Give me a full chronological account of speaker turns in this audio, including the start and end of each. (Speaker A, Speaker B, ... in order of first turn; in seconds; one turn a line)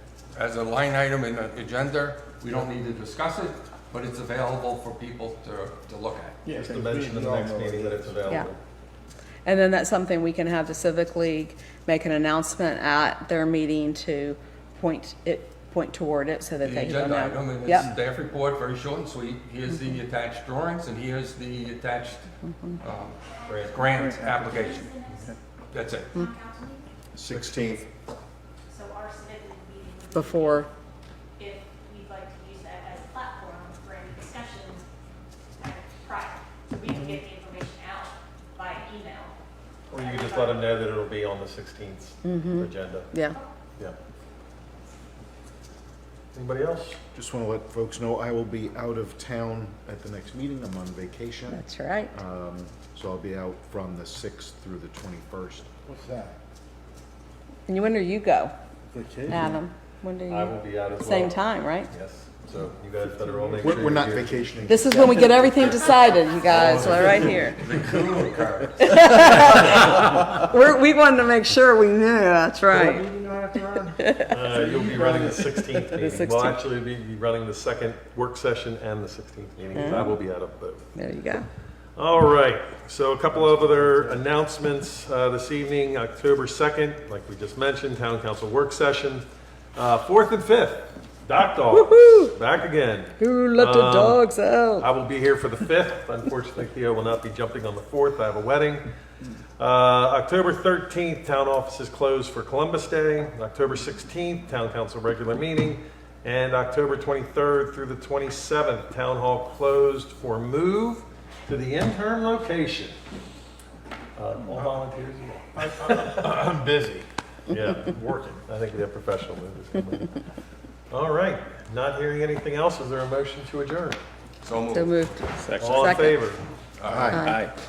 Speaker A: 0.3-6.4
Speaker B: 6.5-8.3
Speaker C: 6.5-8.6
Speaker D: 9.4-17.9
Speaker A: 16.6-24.9
Speaker D: 22.4-22.8
Speaker E: 23.3-23.9
Speaker B: 23.8-25.4
Speaker E: 24.4-25.4
Speaker A: 25.7-26.1
Speaker E: 26.1-26.9
Speaker F: 27.1-27.9
Speaker A: 27.3-27.8
Speaker E: 28.7-30.7
Speaker D: 30.1-30.7
Speaker E: 31.4-34.9
Speaker E: 35.6-39.4
Speaker E: 39.9-40.7
Speaker C: 39.9-43.1
Speaker D: 42.2-43.4
Speaker C: 46.3-47.0
Speaker F: 47.1-55.7
Speaker D: 51.5-52.1
Speaker B: 55.9-56.3
Speaker D: 57.7-58.5
Speaker B: 58.9-59.5
Speaker D: 59.3-61.9
Speaker C: 60.3-64.6
Speaker B: 63.3-63.7
Speaker F: 63.6-65.7
Speaker D: 64.7-67.6
Speaker A: 66.5-69.3
Speaker F: 66.5-67.3
Speaker C: 66.7-67.1
Speaker D: 68.8-73.1
Speaker B: 72.7-75.7
Speaker D: 74.0-74.3
Speaker C: 74.2-80.9
Speaker D: 75.9-76.7
Speaker D: 79.7-80.1
Speaker D: 80.9-81.5
Speaker C: 82.0-94.2
Speaker B: 83.3-84.2
Speaker D: 91.7-92.3
Speaker D: 93.2-94.9
Speaker C: 94.8-98.8
Speaker C: 99.6-112.9
Speaker C: 114.2-116.5
Speaker F: 115.8-117.0
Speaker C: 117.5-120.1
Speaker C: 120.9-124.0
Speaker A: 124.4-125.8
Speaker D: 124.7-126.3
Speaker C: 125.6-126.4
Speaker A: 126.8-127.5
Speaker F: 126.8-127.3
Speaker D: 127.1-127.5